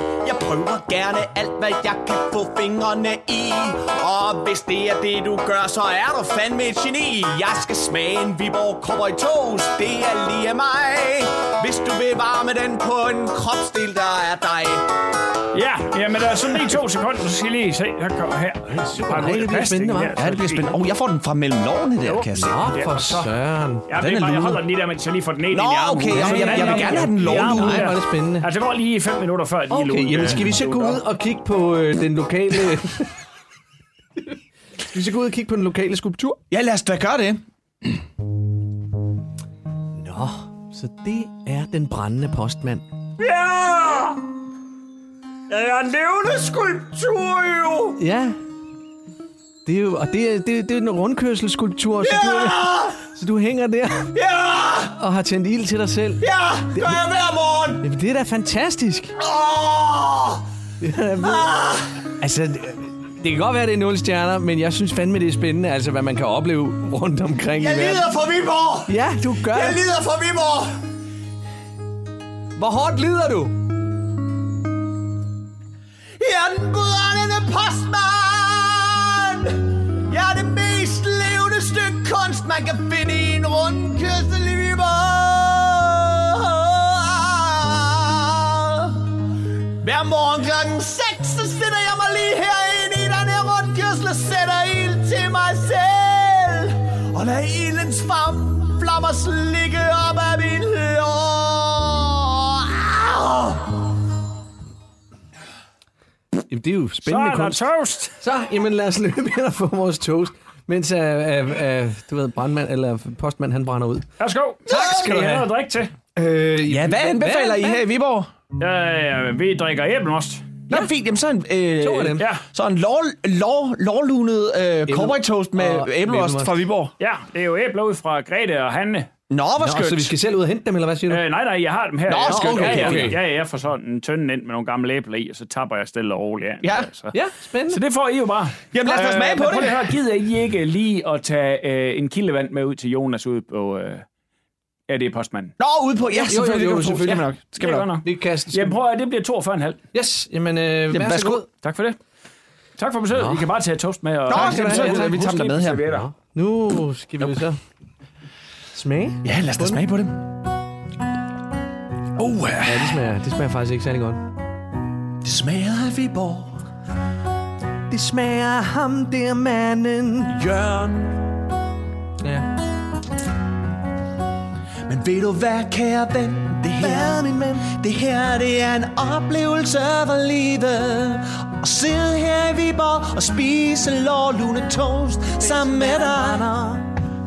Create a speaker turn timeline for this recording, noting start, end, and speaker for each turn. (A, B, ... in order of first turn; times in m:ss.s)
0:00.2-0:14.9 A
0:15.5-0:20.7 B
0:18.7-0:20.2 C
0:20.2-0:22.6 A
0:22.0-0:23.3 B
0:22.4-0:23.8 C
0:23.9-0:31.0 B
0:24.0-0:24.6 A
0:25.5-0:27.9 A
0:26.1-0:28.5 C
0:29.7-0:33.1 C
0:34.9-0:36.4 C
0:36.5-0:38.0 A
0:40.0-0:42.9 C
0:43.2-0:44.2 B
0:45.5-0:47.8 B
0:47.3-0:47.9 A
0:48.0-0:48.4 C
0:49.6-0:54.1 C
0:52.0-0:53.0 A
0:54.1-0:55.0 A
0:54.9-0:57.0 C
0:56.2-0:57.8 A
0:57.8-0:59.1 C
0:59.2-1:00.4 A
1:00.8-1:01.5 C
1:01.2-1:02.1 A
1:02.2-1:08.1 C
1:07.5-1:10.8 A
1:08.9-1:09.8 C
1:12.6-1:13.5 C
1:16.2-1:29.1 A
1:29.8-1:43.9 A
1:46.5-1:47.6 C
1:47.0-1:48.1 B
1:48.2-1:54.1 C
1:54.2-1:55.9 B
1:54.7-1:55.5 C
1:54.7-1:55.1 A
1:56.1-1:57.8 C
1:56.7-1:58.3 A
1:58.6-2:00.6 B
2:00.7-2:06.9 A
2:01.8-2:02.3 C
2:02.2-2:02.4 B
2:04.9-2:06.6 C
2:07.0-2:09.1 B
2:09.3-2:10.1 A
2:09.6-2:11.2 C
2:11.1-2:17.1 B
2:12.1-2:13.2 A
2:12.2-2:13.2 C
2:16.6-2:16.9 A
2:17.1-2:17.8 C
2:17.7-2:24.0 B
2:18.7-2:20.0 A
2:24.9-2:25.5 B
2:25.6-2:27.9 A
2:26.1-2:27.3 C
2:27.6-2:29.8 B
2:28.0-2:28.8 C
2:29.9-2:31.5 C
2:30.9-2:31.4 A
2:31.6-2:32.0 B
2:32.8-2:36.1 B
2:33.1-2:33.4 C
2:34.3-2:35.9 A
2:34.3-2:35.3 C
2:35.9-2:37.6 C
2:38.7-2:39.8 C
2:39.2-2:40.3 A
2:42.2-2:43.0 A
2:42.6-2:44.2 C
2:45.2-2:46.5 A
2:47.9-2:50.4 C
2:50.3-2:51.3 A
2:52.2-2:52.5 C
2:54.8-3:06.4 A
2:56.8-2:57.7 C
3:05.4-3:06.9 C